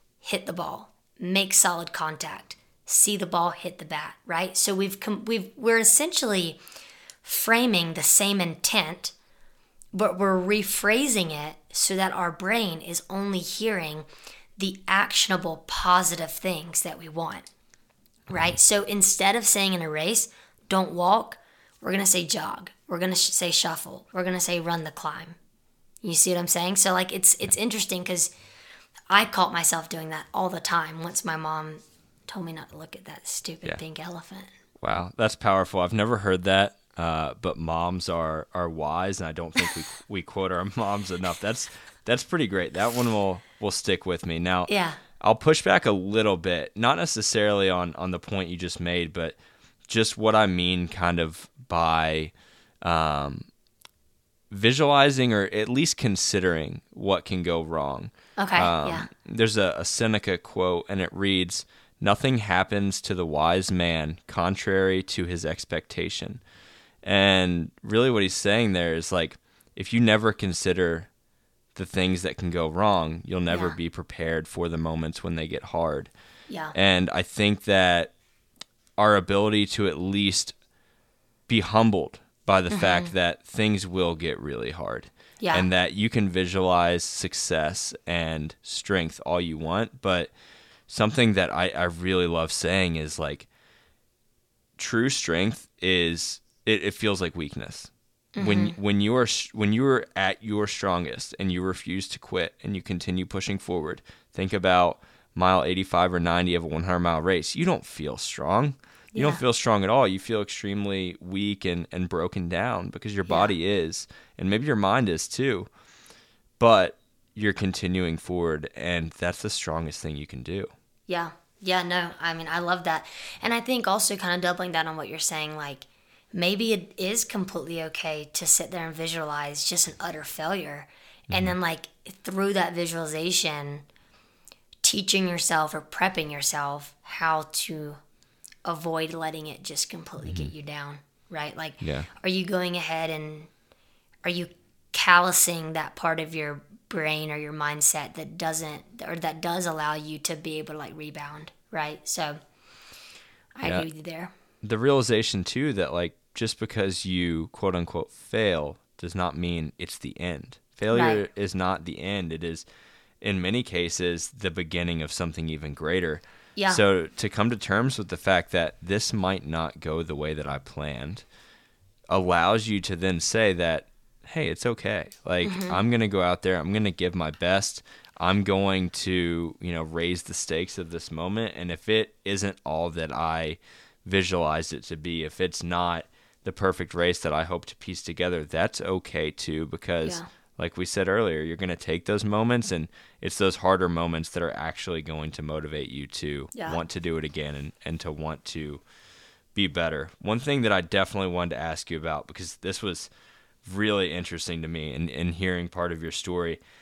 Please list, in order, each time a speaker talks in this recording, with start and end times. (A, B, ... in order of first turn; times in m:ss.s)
0:00.2-0:06.6 A
0:07.2-0:09.1 A
0:09.9-0:14.1 A
0:14.6-0:17.5 A
0:18.3-0:25.4 A
0:26.0-0:28.3 A
0:29.1-0:34.5 A
0:34.8-0:53.5 B
0:44.7-0:45.0 A
0:54.5-1:06.4 B
0:58.4-0:59.1 A
1:07.0-1:11.1 B
1:11.7-1:16.1 B
1:13.5-1:13.7 A
1:16.5-1:16.7 A
1:16.7-1:18.1 B
1:19.0-1:20.6 B
1:21.5-1:30.3 B
1:22.7-1:23.1 A
1:25.4-1:25.7 A
1:30.9-1:33.5 B
1:34.8-1:55.7 B
1:38.4-1:38.8 A
1:49.1-1:49.4 A
1:53.3-1:53.5 A
1:56.6-2:00.7 B
2:01.1-2:13.8 A
2:11.3-2:11.6 B
2:14.8-2:18.0 A
2:18.6-2:23.5 A
2:20.2-2:20.5 B
2:21.8-2:22.1 B
2:24.2-2:32.4 A
2:33.6-2:34.3 A
2:34.6-2:42.6 B
2:40.9-2:41.2 A
2:43.2-2:51.2 B
2:46.6-2:46.8 A
2:52.1-3:18.8 B
2:55.4-2:55.8 A
3:16.5-3:16.8 A
3:19.5-3:23.1 B
3:23.6-3:26.6 B